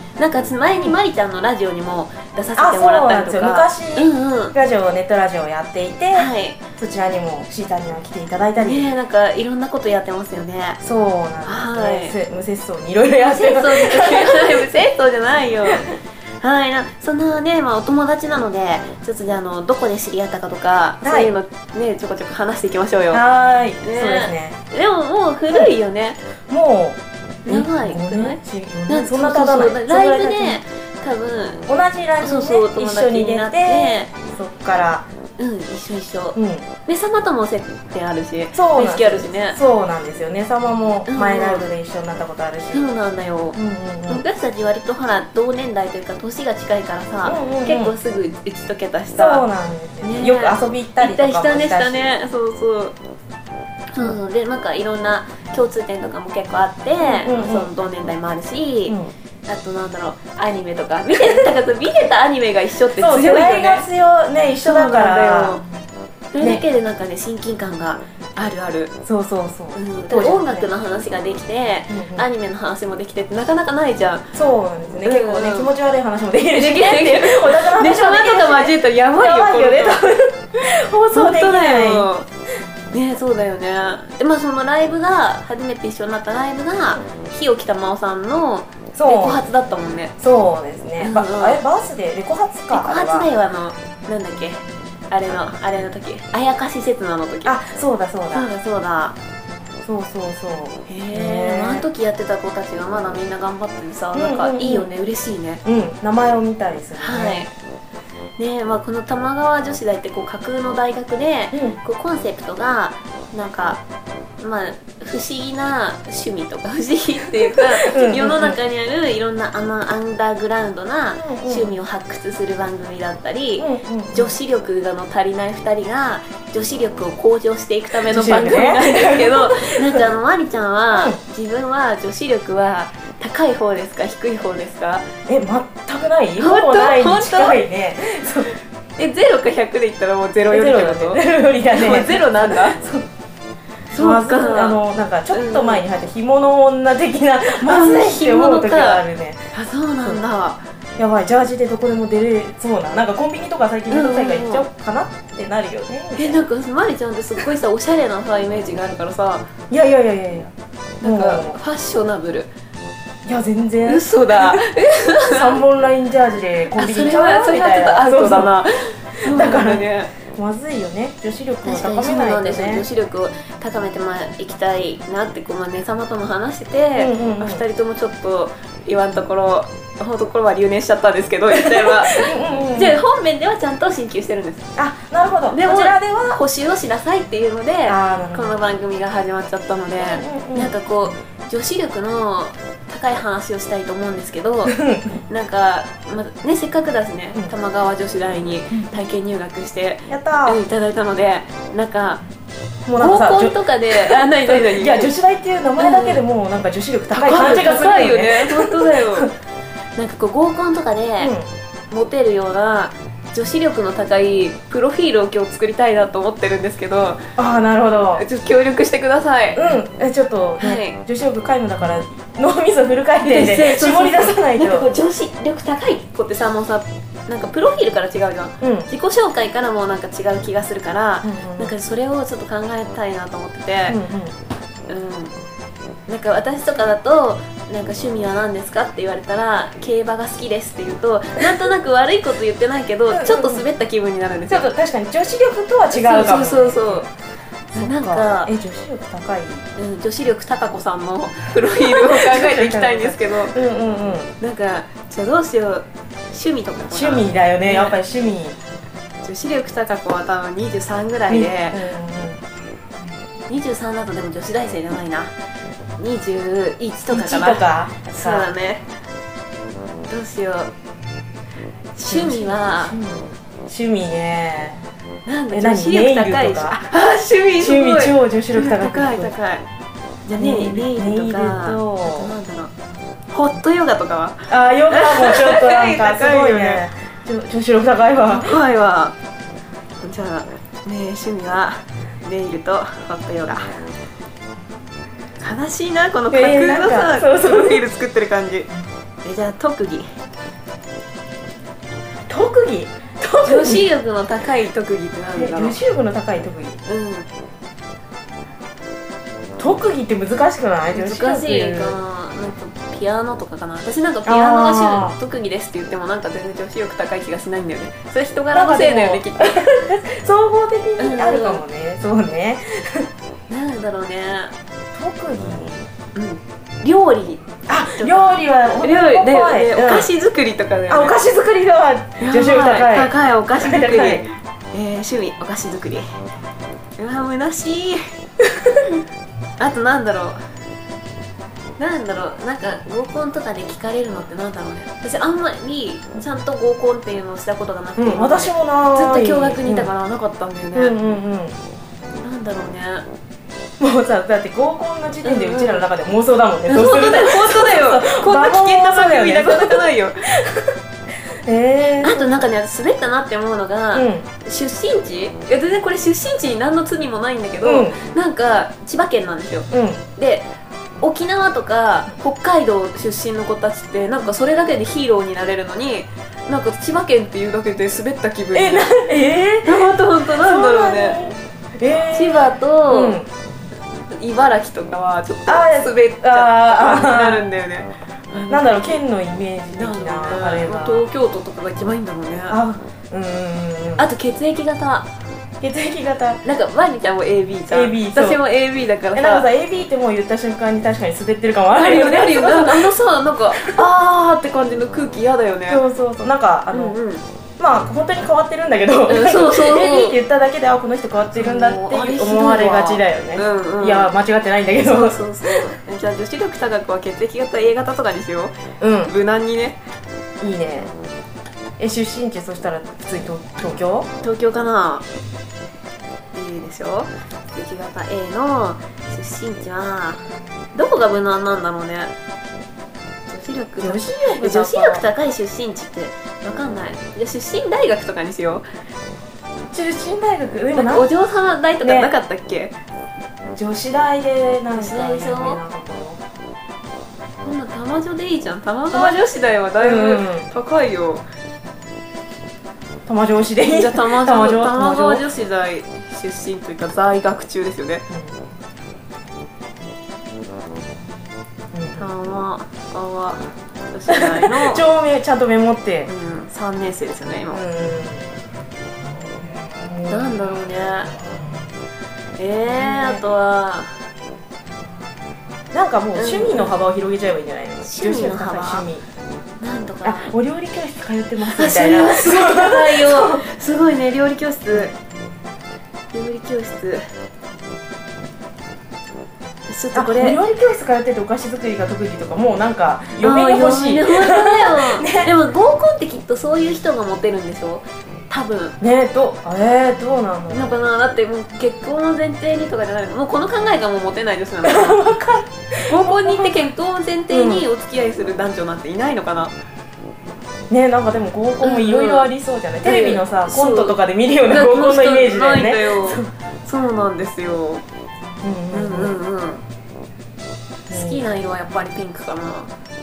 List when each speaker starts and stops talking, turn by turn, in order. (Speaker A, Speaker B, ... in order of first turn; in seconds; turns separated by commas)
Speaker A: 0.2-4.5, Speaker B: 2.6-8.9, Speaker A: 6.1-6.6, Speaker A: 8.6-10.8, Speaker B: 10.8-14.7, Speaker A: 11.4-12.2, Speaker A: 13.2-23.2, Speaker B: 21.0-21.4, Speaker B: 23.1-24.6, Speaker A: 23.8-26.2, Speaker B: 26.5-30.6, Speaker A: 27.4-31.6, Speaker B: 31.7-35.1, Speaker A: 32.2-34.1, Speaker A: 35.4-39.6, Speaker B: 36.4-36.7, Speaker B: 38.5-42.9, Speaker A: 41.1-41.7, Speaker A: 42.7-49.5, Speaker B: 43.5-44.2, Speaker B: 47.2-48.0, Speaker B: 49.1-52.1, Speaker A: 50.0-53.0, Speaker A: 53.9-63.9, Speaker B: 57.0-57.7, Speaker B: 62.9-65.6, Speaker A: 64.6-65.7, Speaker A: 66.3-69.0, Speaker B: 66.4-66.7, Speaker B: 69.0-70.7, Speaker A: 69.7-74.3, Speaker B: 71.9-72.3, Speaker B: 74.3-82.1, Speaker A: 75.0-75.7, Speaker A: 76.5-80.0, Speaker A: 81.1-82.3, Speaker A: 82.9-90.1, Speaker B: 88.9-89.5, Speaker B: 90.2-93.3, Speaker A: 91.0-91.6, Speaker A: 92.7-97.6, Speaker B: 97.5-98.5, Speaker A: 98.3-99.2, Speaker B: 99.8-101.9, Speaker A: 100.9-105.6, Speaker B: 104.1-104.9, Speaker B: 105.6-107.5, Speaker A: 107.0-107.5, Speaker A: 108.4-113.8, Speaker B: 111.5-111.8, Speaker A: 114.4-135.1, Speaker B: 117.8-118.6, Speaker B: 121.2-121.8, Speaker B: 123.6-124.4, Speaker B: 128.0-130.1, Speaker B: 130.9-131.2, Speaker B: 135.3-138.5, Speaker A: 136.4-137.6, Speaker A: 139.0-142.8, Speaker B: 140.5-143.1, Speaker A: 143.9-145.8, Speaker B: 143.9-149.5, Speaker A: 147.4-150.6, Speaker B: 151.0-156.4, Speaker A: 153.9-154.7, Speaker A: 156.2-159.5, Speaker B: 159.7-160.5, Speaker A: 161.0-162.5, Speaker B: 161.0-161.6, Speaker B: 163.2-168.6, Speaker A: 163.9-165.6, Speaker A: 166.8-170.1, Speaker B: 169.2-172.9, Speaker A: 171.6-184.7, Speaker B: 177.0-177.6, Speaker B: 181.5-183.0, Speaker B: 184.8-186.4, Speaker A: 185.5-194.8, Speaker B: 187.9-188.6, Speaker B: 190.0-190.7, Speaker B: 194.7-195.2, Speaker A: 195.3-202.2, Speaker B: 200.1-200.7, Speaker B: 202.9-209.3, Speaker A: 203.0-205.1, Speaker A: 205.8-206.2, Speaker A: 207.1-209.3, Speaker A: 210.0-211.3, Speaker B: 211.2-211.5, Speaker A: 211.9-217.3, Speaker B: 217.4-218.2, Speaker A: 218.2-219.6, Speaker B: 219.6-224.9, Speaker A: 220.6-221.0, Speaker A: 223.2-234.0, Speaker B: 228.6-228.9, Speaker B: 231.2-231.7, Speaker B: 233.9-234.3, Speaker A: 234.9-235.3, Speaker A: 236.1-244.7, Speaker B: 243.1-243.7, Speaker B: 244.5-247.1, Speaker A: 245.9-247.1, Speaker A: 247.7-248.5, Speaker B: 247.7-249.7, Speaker A: 249.8-253.6, Speaker B: 251.7-254.3, Speaker A: 254.4-258.0, Speaker B: 256.9-258.6, Speaker A: 259.2-261.8, Speaker B: 261.3-262.4, Speaker A: 263.5-265.3, Speaker A: 266.0-267.6, Speaker B: 267.1-268.5, Speaker A: 268.2-268.9, Speaker A: 270.1-270.7, Speaker A: 271.9-272.9, Speaker B: 272.1-274.8, Speaker A: 275.2-279.7, Speaker B: 275.5-276.8, Speaker B: 277.6-279.3, Speaker A: 280.3-282.7, Speaker B: 280.4-282.3, Speaker A: 283.3-286.9, Speaker B: 284.5-288.6, Speaker A: 288.3-289.2, Speaker A: 290.0-293.7, Speaker A: 295.4-298.7, Speaker B: 296.3-297.9, Speaker A: 299.2-300.1, Speaker B: 302.3-303.9, Speaker A: 303.4-305.8, Speaker B: 305.4-306.8, Speaker A: 306.9-307.3, Speaker B: 309.6-312.0, Speaker A: 310.9-319.7, Speaker B: 314.2-315.2, Speaker B: 318.5-323.1, Speaker A: 321.0-321.6, Speaker A: 323.5-324.5, Speaker B: 324.9-325.8, Speaker A: 326.1-331.2, Speaker B: 327.7-330.1, Speaker B: 330.9-334.3, Speaker A: 332.2-336.1, Speaker A: 337.0-338.0, Speaker A: 339.6-340.4, Speaker A: 341.8-351.1, Speaker B: 348.0-349.9, Speaker B: 350.7-351.6, Speaker A: 352.2-353.1, Speaker B: 353.8-360.7, Speaker A: 355.2-355.9, Speaker A: 356.7-360.3, Speaker B: 361.4-362.4, Speaker A: 362.0-370.5, Speaker B: 363.9-364.3, Speaker B: 367.6-368.0, Speaker B: 369.7-370.0, Speaker A: 371.0-378.9, Speaker B: 378.5-383.3, Speaker A: 379.6-381.2, Speaker A: 382.1-383.2, Speaker A: 384.1-389.0, Speaker B: 385.5-387.5, Speaker B: 388.5-391.1, Speaker A: 389.7-392.6, Speaker B: 392.5-394.1, Speaker A: 394.0-395.1, Speaker B: 395.6-396.4, Speaker A: 396.4-399.5, Speaker B: 397.7-398.4, Speaker B: 399.1-402.9, Speaker A: 401.7-405.8, Speaker B: 403.5-403.8, Speaker B: 405.7-407.0, Speaker A: 406.7-407.2, Speaker B: 407.6-415.7, Speaker A: 409.1-410.2, Speaker A: 411.3-414.1, Speaker A: 414.8-419.8, Speaker B: 418.8-419.1, Speaker B: 420.4-420.9, Speaker B: 421.8-424.1, Speaker A: 424.2-425.1, Speaker A: 426.3-432.1, Speaker A: 433.3-438.6, Speaker B: 433.8-435.1, Speaker B: 439.7-441.1, Speaker A: 440.7-442.8, Speaker B: 441.8-442.1, Speaker B: 443.5-446.2, Speaker A: 444.7-445.6, Speaker A: 447.4-451.2, Speaker B: 448.9-449.2, Speaker B: 449.8-450.5, Speaker B: 453.1-455.3, Speaker A: 453.6-458.1, Speaker B: 458.1-458.4, Speaker B: 461.7-462.1, Speaker A: 462.0-464.9, Speaker B: 464.1-466.1, Speaker A: 466.1-467.6, Speaker B: 467.5-468.2, Speaker B: 469.8-470.6, Speaker A: 470.1-471.1, Speaker A: 472.4-473.9, Speaker B: 472.7-473.3, Speaker B: 475.7-479.0, Speaker A: 476.1-476.8, Speaker A: 477.8-478.9, Speaker A: 479.6-480.3, Speaker B: 480.0-483.4, Speaker A: 481.4-484.9, Speaker A: 486.1-487.1, Speaker A: 489.7-490.4, Speaker B: 489.9-495.4, Speaker A: 493.2-498.8, Speaker B: 498.8-500.8, Speaker A: 500.5-505.1, Speaker B: 504.6-506.7, Speaker A: 505.9-509.5, Speaker B: 507.3-507.7, Speaker B: 510.7-516.3, Speaker A: 511.6-517.9, Speaker B: 518.4-519.2, Speaker A: 518.7-519.6, Speaker B: 520.9-521.3, Speaker A: 520.9-522.7